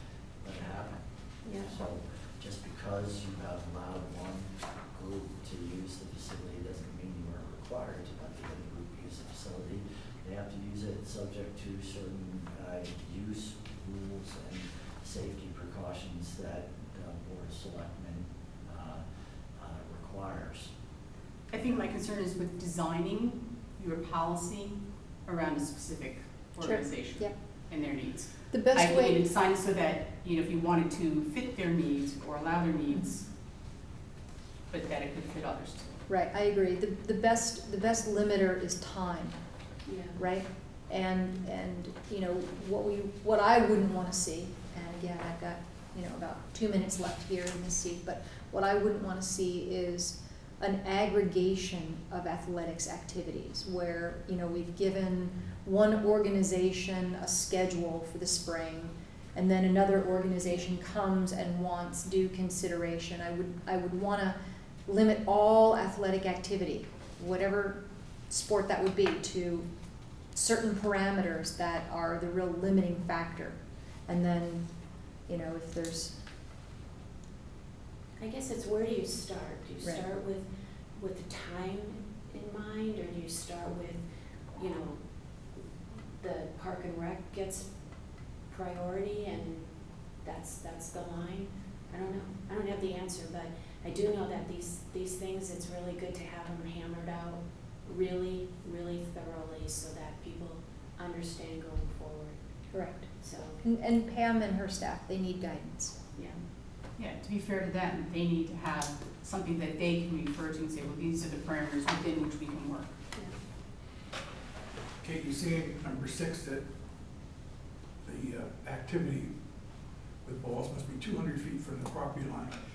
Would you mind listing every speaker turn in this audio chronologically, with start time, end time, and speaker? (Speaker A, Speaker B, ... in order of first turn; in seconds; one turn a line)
Speaker A: 0.4-19.0
Speaker B: 1.4-1.7
Speaker A: 19.6-20.7
Speaker C: 21.5-33.3
Speaker A: 21.6-21.9
Speaker D: 26.6-27.3
Speaker D: 28.5-29.2
Speaker C: 34.7-35.9
Speaker D: 36.1-39.3
Speaker B: 39.9-40.2
Speaker D: 40.1-69.7
Speaker D: 70.3-74.7
Speaker D: 75.3-76.2
Speaker B: 78.2-84.0
Speaker B: 84.5-85.0
Speaker B: 86.2-87.7
Speaker B: 88.5-89.7
Speaker B: 90.2-102.4
Speaker D: 102.7-103.1
Speaker B: 103.2-103.6
Speaker D: 103.6-106.0
Speaker B: 106.1-106.4
Speaker C: 107.0-112.9
Speaker E: 115.0-116.6
Speaker E: 118.0-119.3
Speaker E: 120.2-122.6